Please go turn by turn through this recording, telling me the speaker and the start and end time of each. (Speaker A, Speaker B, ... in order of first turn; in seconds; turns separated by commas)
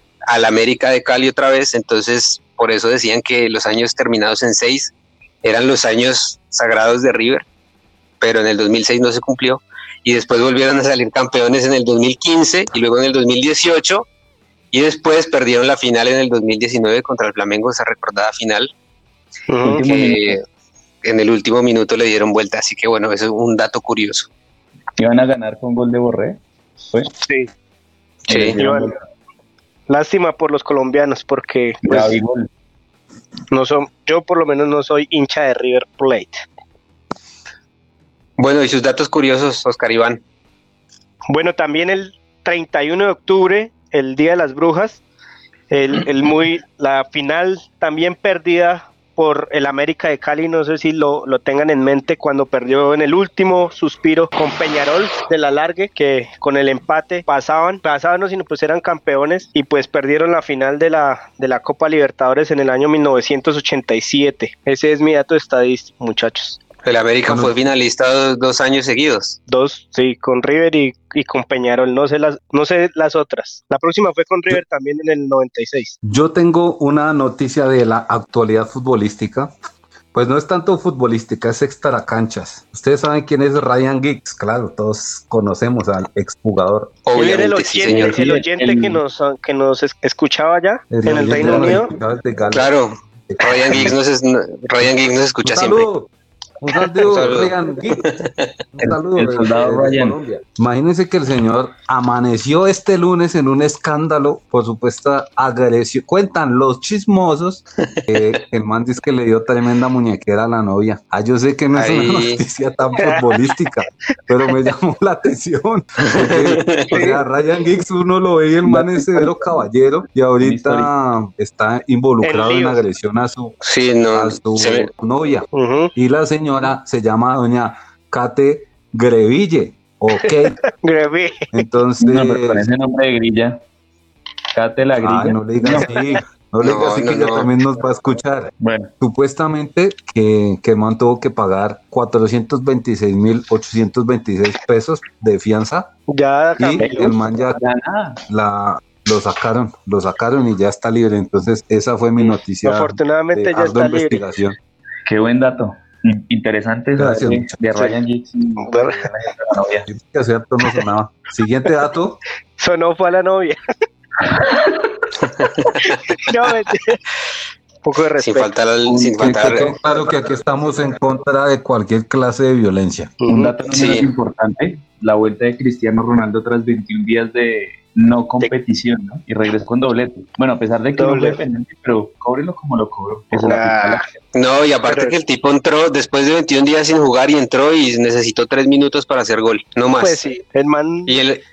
Speaker A: 0.3-7.5, Speaker A: 8.2-14.1, Speaker A: 14.7-18.7, Speaker B: 19.5-19.8, Speaker C: 19.6-20.4, Speaker A: 19.8-20.4, Speaker A: 21.0-24.3, Speaker C: 25.0-26.4, Speaker B: 27.2-27.5, Speaker A: 28.3-28.6, Speaker C: 28.3-29.0, Speaker B: 28.6-28.9, Speaker B: 29.9-32.2, Speaker C: 31.8-32.5, Speaker B: 33.5-36.5, Speaker A: 38.4-40.2, Speaker B: 41.3-45.0, Speaker B: 45.7-66.6, Speaker A: 66.8-69.4, Speaker D: 67.2-67.5, Speaker B: 69.5-76.0, Speaker D: 76.0-79.5, Speaker D: 80.1-86.9, Speaker A: 87.0-88.1, Speaker B: 87.1-91.9, Speaker C: 87.8-89.0, Speaker D: 90.9-92.7, Speaker C: 91.3-91.9, Speaker A: 92.5-95.9, Speaker D: 93.3-94.0, Speaker D: 95.4-96.1, Speaker D: 96.6-98.1, Speaker A: 97.1-98.5, Speaker D: 98.7-123.6, Speaker C: 98.8-100.2, Speaker A: 111.8-112.4, Speaker B: 113.0-113.2, Speaker A: 116.2-116.9, Speaker B: 116.9-117.2, Speaker C: 118.7-119.5, Speaker C: 120.4-120.9, Speaker B: 122.2-122.8, Speaker A: 123.6-124.9, Speaker D: 124.1-130.6, Speaker B: 125.5-125.9, Speaker B: 130.8-131.7, Speaker D: 131.5-132.7, Speaker C: 132.0-133.6, Speaker C: 134.5-136.0, Speaker D: 135.0-145.9, Speaker A: 136.6-137.5, Speaker C: 138.6-138.9, Speaker B: 146.1-147.1, Speaker D: 146.6-147.6, Speaker C: 146.8-148.2, Speaker D: 148.3-154.6, Speaker B: 152.2-154.2, Speaker C: 155.1-159.9, Speaker D: 157.0-157.6, Speaker B: 158.6-159.0, Speaker D: 159.9-162.2, Speaker B: 162.6-163.6, Speaker C: 164.3-164.8, Speaker A: 165.4-166.2, Speaker B: 166.2-167.0, Speaker B: 167.8-168.5, Speaker A: 168.2-169.7, Speaker C: 168.9-169.8, Speaker D: 169.2-173.1, Speaker B: 173.2-173.6, Speaker C: 173.3-184.0, Speaker A: 173.7-174.1, Speaker B: 181.0-181.4, Speaker B: 183.3-184.0, Speaker A: 184.3-190.2, Speaker B: 184.8-185.2, Speaker B: 190.0-191.2, Speaker A: 191.1-191.4